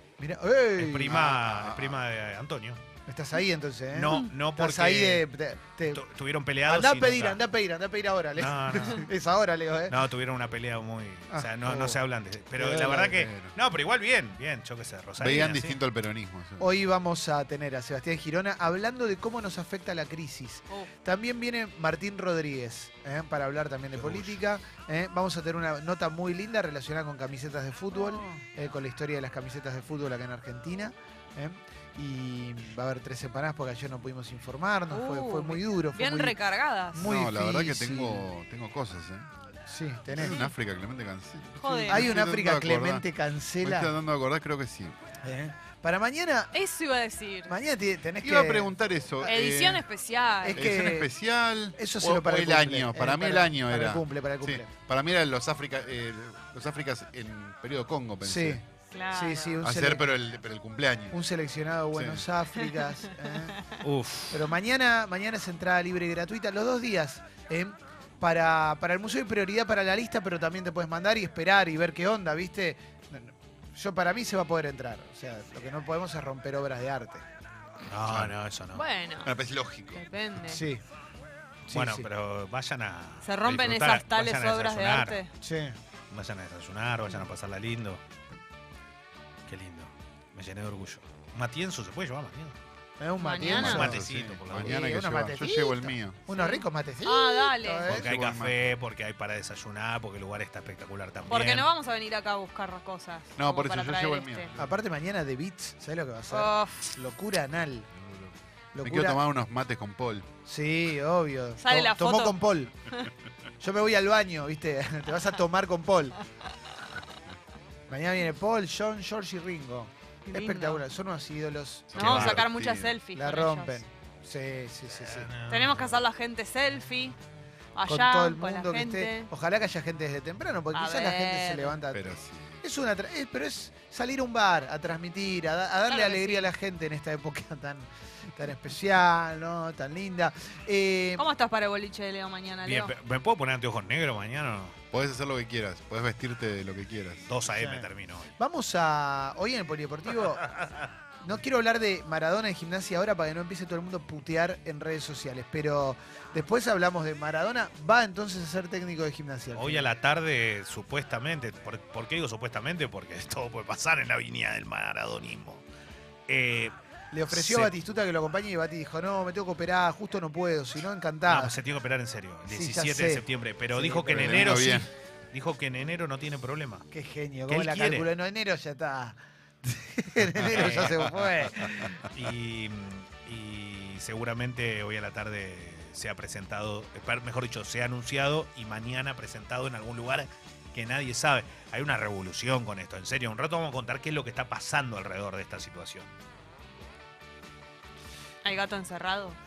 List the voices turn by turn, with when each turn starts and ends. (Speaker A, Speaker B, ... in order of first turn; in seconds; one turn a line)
Speaker A: 0.2-1.2
Speaker B: 0.8-2.8
Speaker C: 1.0-2.0
Speaker A: 3.1-6.0
Speaker B: 3.9-5.2
Speaker B: 5.9-7.4
Speaker A: 6.6-9.9
Speaker B: 8.3-9.1
Speaker B: 9.9-15.8
Speaker A: 11.3-12.0
Speaker A: 12.5-13.2
Speaker C: 13.2-13.5
Speaker C: 15.2-16.7
Speaker A: 16.6-36.4
Speaker B: 23.9-24.4
Speaker D: 34.9-37.1
Speaker A: 36.9-38.3
Speaker C: 37.0-39.3
Speaker A: 39.7-40.4
Speaker C: 40.1-43.0
Speaker D: 41.6-42.1
Speaker A: 41.7-43.9
Speaker C: 43.6-45.0
Speaker A: 45.2-46.5
Speaker D: 46.5-47.6
Speaker A: 47.5-49.3
Speaker C: 48.2-49.9
Speaker D: 49.2-50.6
Speaker A: 50.4-51.1
Speaker C: 50.5-58.6
Speaker A: 51.7-54.7
Speaker A: 58.2-60.2
Speaker D: 58.9-59.6
Speaker C: 59.6-61.2
Speaker A: 61.1-63.7
Speaker C: 61.9-62.2
Speaker D: 63.5-63.8
Speaker B: 63.8-64.5
Speaker A: 64.3-77.2
Speaker B: 77.9-78.8
Speaker C: 78.0-78.3
Speaker D: 78.7-79.3
Speaker C: 79.2-80.1
Speaker D: 79.9-80.6
Speaker A: 80.5-80.8
Speaker A: 81.7-82.1
Speaker B: 81.7-85.2
Speaker D: 83.2-85.3
Speaker A: 85.4-85.8
Speaker B: 86.1-88.0
Speaker B: 89.5-92.6
Speaker A: 93.0-98.1
Speaker D: 93.2-93.8
Speaker C: 93.5-96.2
Speaker B: 93.5-94.9
Speaker D: 96.3-97.9
Speaker C: 97.9-98.6
Speaker B: 97.9-101.7
Speaker D: 101.3-104.5
Speaker C: 103.4-104.7
Speaker A: 104.5-107.9
Speaker D: 106.3-106.9
Speaker A: 108.7-109.2
Speaker C: 108.8-110.2
Speaker A: 110.5-112.7
Speaker D: 111.6-113.1
Speaker A: 113.6-116.2
Speaker A: 117.9-122.0
Speaker D: 120.3-120.8
Speaker D: 121.9-123.8
Speaker B: 121.9-122.5
Speaker C: 121.9-123.0
Speaker A: 123.1-125.3
Speaker B: 124.8-126.0
Speaker D: 125.4-127.2
Speaker D: 127.7-129.3
Speaker A: 127.8-132.1
Speaker D: 130.7-131.8
Speaker C: 131.9-132.6
Speaker A: 132.6-141.3
Speaker D: 135.8-136.5
Speaker D: 141.2-142.9
Speaker B: 142.6-144.8
Speaker C: 144.9-147.3
Speaker B: 147.2-148.3
Speaker A: 147.5-147.9
Speaker A: 148.4-150.4
Speaker A: 151.2-159.9
Speaker B: 159.5-165.6
Speaker B: 166.3-166.7
Speaker A: 167.1-171.6
Speaker B: 167.3-167.7
Speaker B: 171.2-176.8
Speaker A: 172.5-174.7
Speaker C: 174.1-174.9
Speaker A: 176.9-181.9
Speaker B: 177.5-178.1
Speaker B: 180.3-181.1
Speaker B: 181.9-196.1
Speaker D: 198.4-199.4